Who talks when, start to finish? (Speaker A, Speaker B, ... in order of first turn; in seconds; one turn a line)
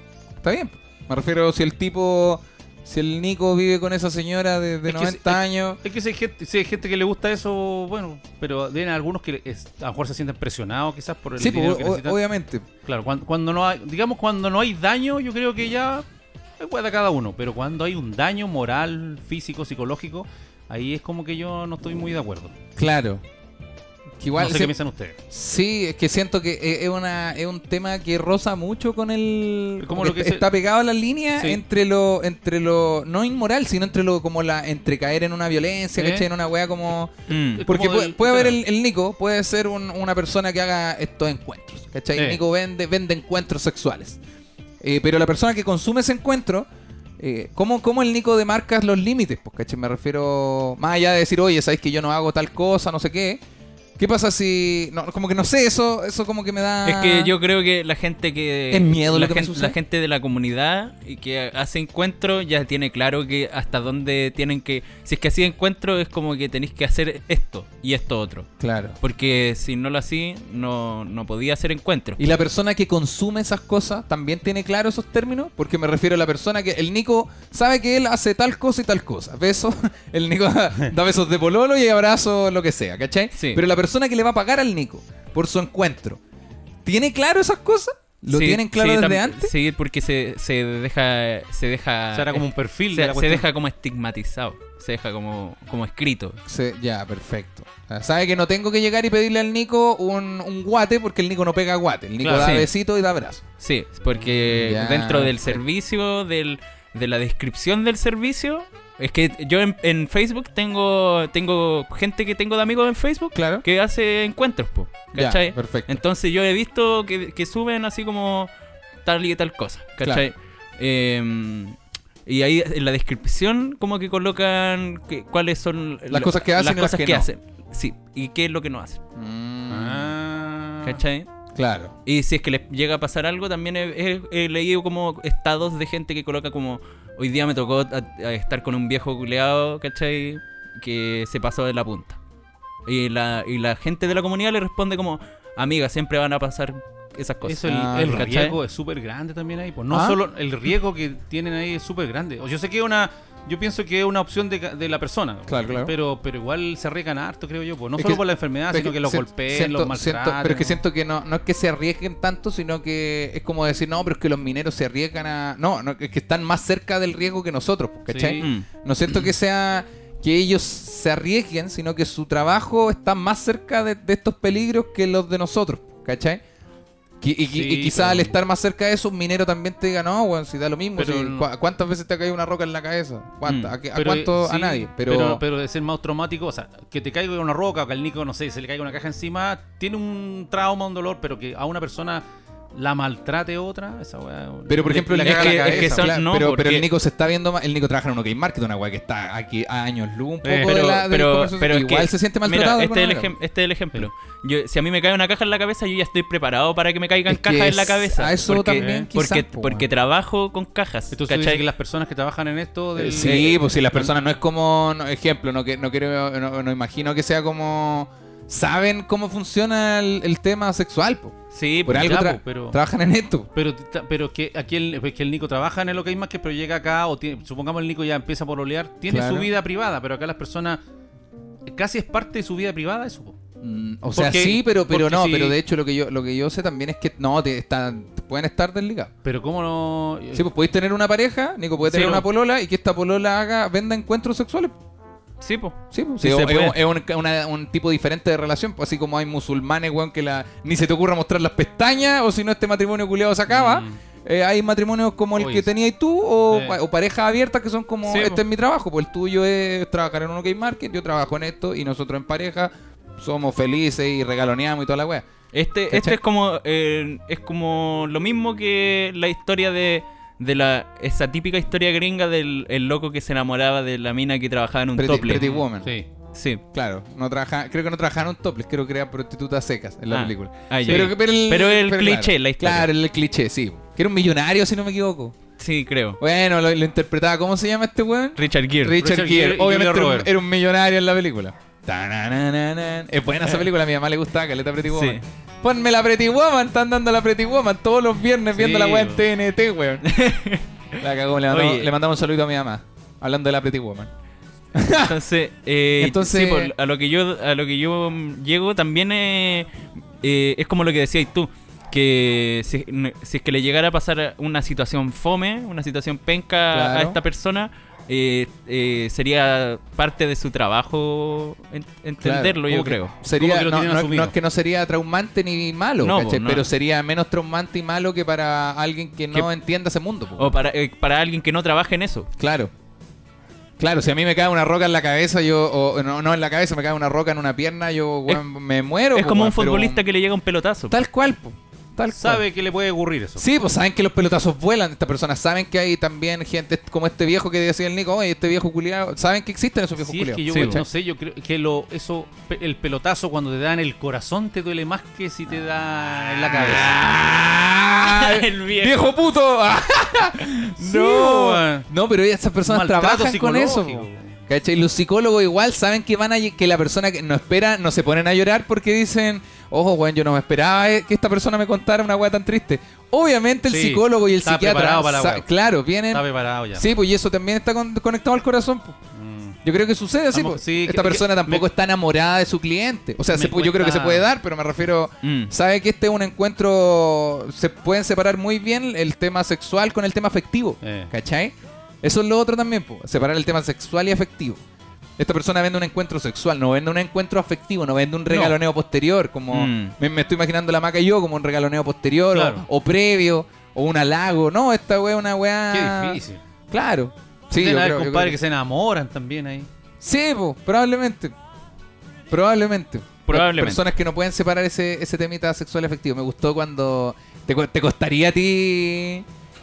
Speaker A: 0.4-5.8
Speaker B: 4.9-12.2
Speaker A: 11.4-12.6
Speaker B: 12.8-16.1
Speaker B: 16.6-22.5
Speaker A: 22.8-23.2
Speaker A: 24.2-24.7
Speaker B: 24.4-25.2
Speaker A: 25.3-37.1
Speaker B: 29.8-30.5
Speaker B: 31.4-31.6
Speaker B: 36.0-36.2
Speaker C: 37.3-37.6
Speaker B: 37.5-38.6
Speaker A: 37.7-44.2
Speaker B: 42.1-42.4
Speaker A: 44.8-46.7
Speaker A: 47.2-53.4
Speaker A: 54.0-57.3
Speaker C: 56.8-68.5
Speaker A: 58.7-59.8
Speaker A: 68.6-69.0
Speaker C: 69.0-72.2
Speaker A: 72.2-86.2
Speaker C: 83.3-83.6
Speaker A: 86.8-89.5
Speaker C: 88.3-96.4
Speaker B: 92.1-93.5
Speaker A: 96.5-103.4
Speaker B: 102.2-102.6
Speaker C: 102.3-102.7
Speaker C: 103.6-118.5
Speaker A: 104.3-105.6
Speaker A: 113.3-113.6
Speaker A: 115.1-116.0
Speaker C: 119.0-129.0
Speaker A: 126.1-127.3
Speaker A: 129.2-130.1
Speaker B: 129.7-131.0
Speaker C: 130.8-131.3
Speaker A: 131.5-131.9
Speaker C: 132.1-142.2
Speaker C: 142.8-148.6
Speaker B: 147.4-160.8
Speaker A: 147.7-148.2
Speaker A: 149.9-150.2
Speaker A: 155.5-155.9
Speaker A: 158.0-176.4
Speaker B: 168.1-168.5
Speaker C: 168.4-168.7
Speaker A: 177.2-185.4
Speaker B: 177.5-178.3
Speaker B: 181.0-181.5
Speaker C: 183.4-183.7
Speaker B: 183.9-196.1
Speaker A: 194.7-203.3
Speaker C: 195.2-196.9
Speaker C: 200.4-211.6
Speaker A: 207.3-209.8
Speaker B: 208.7-209.1
Speaker B: 211.1-214.1
Speaker A: 213.0-223.5
Speaker C: 213.2-213.5
Speaker C: 221.5-222.2
Speaker B: 221.9-222.8
Speaker B: 223.5-230.8
Speaker A: 229.1-229.5
Speaker B: 231.7-233.4
Speaker A: 233.6-239.1
Speaker B: 234.1-235.6
Speaker B: 239.2-240.5
Speaker A: 240.3-244.7
Speaker B: 241.8-242.2
Speaker C: 245.4-246.8
Speaker A: 245.9-265.2
Speaker B: 253.5-254.0
Speaker B: 255.4-255.7
Speaker B: 256.5-256.8
Speaker C: 258.0-258.4
Speaker C: 265.5-275.6
Speaker A: 265.9-266.2
Speaker A: 275.0-275.9
Speaker B: 275.3-276.1
Speaker C: 276.3-276.6
Speaker A: 276.7-285.4
Speaker C: 280.1-282.9
Speaker B: 280.8-281.1
Speaker C: 285.6-286.2
Speaker A: 286.2-300.1
Speaker C: 288.4-289.0
Speaker B: 288.9-290.3
Speaker C: 294.9-295.2
Speaker B: 298.5-299.2
Speaker C: 300.0-300.6
Speaker A: 301.0-304.1
Speaker C: 301.5-301.9
Speaker A: 304.7-305.1
Speaker C: 304.9-309.7
Speaker A: 306.0-306.7
Speaker C: 310.2-323.1
Speaker A: 316.7-317.2
Speaker A: 322.2-330.5
Speaker B: 322.7-324.3
Speaker C: 326.0-326.6
Speaker C: 330.4-332.3
Speaker A: 332.4-332.7
Speaker A: 333.8-340.0
Speaker C: 339.1-341.0
Speaker A: 340.9-342.4
Speaker B: 342.1-343.4
Speaker A: 343.4-350.9
Speaker B: 350.0-356.9
Speaker C: 350.5-350.8
Speaker A: 356.5-379.0
Speaker C: 358.0-359.1
Speaker B: 360.8-361.9
Speaker B: 362.6-364.3
Speaker B: 373.7-375.5
Speaker B: 376.1-376.9
Speaker B: 379.1-379.6
Speaker A: 379.6-394.6
Speaker B: 380.3-381.7
Speaker B: 383.3-384.2
Speaker C: 385.2-385.5
Speaker B: 390.8-391.1
Speaker A: 395.2-406.2
Speaker B: 398.3-398.6
Speaker C: 399.5-399.9
Speaker B: 402.3-402.6
Speaker B: 405.7-406.4
Speaker A: 406.7-408.4
Speaker B: 407.5-409.7
Speaker A: 410.0-411.3
Speaker A: 412.3-419.2
Speaker C: 413.3-413.8